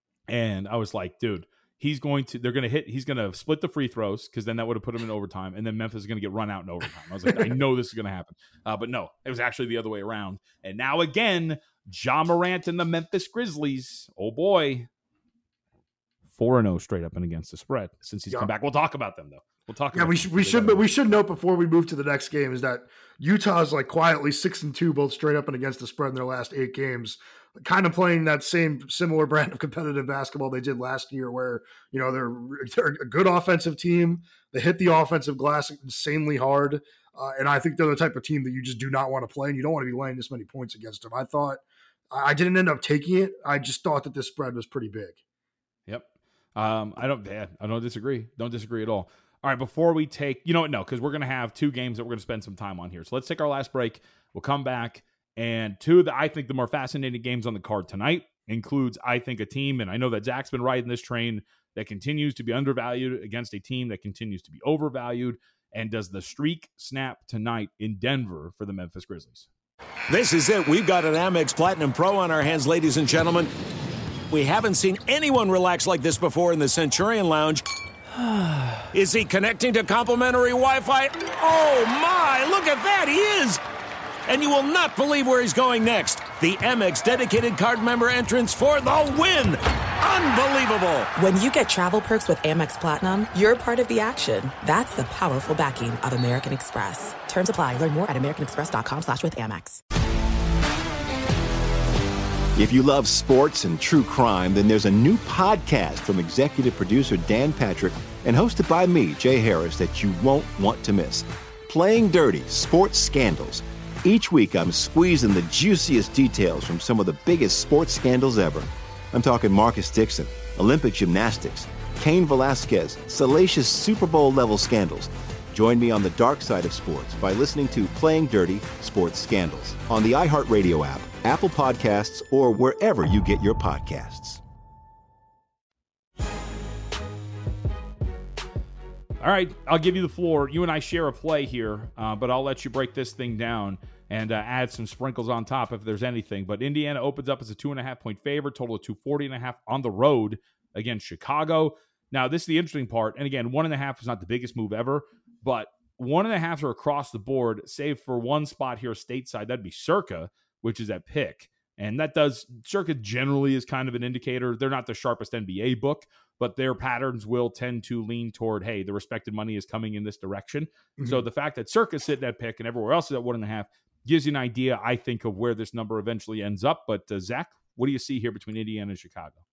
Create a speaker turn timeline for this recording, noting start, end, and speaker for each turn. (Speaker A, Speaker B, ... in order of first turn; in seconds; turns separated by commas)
Speaker A: 0.3-14.9, Speaker A: 16.3-20.9, Speaker B: 19.9-45.2, Speaker A: 45.9-69.5, Speaker C: 70.1-73.5, Speaker C: 74.3-77.6, Speaker C: 78.9-83.6, Speaker C: 84.2-91.1, Speaker D: 91.2-99.8, Speaker E: 102.5-134.4, Speaker A: 139.2-179.4, Speaker B: 171.0-171.2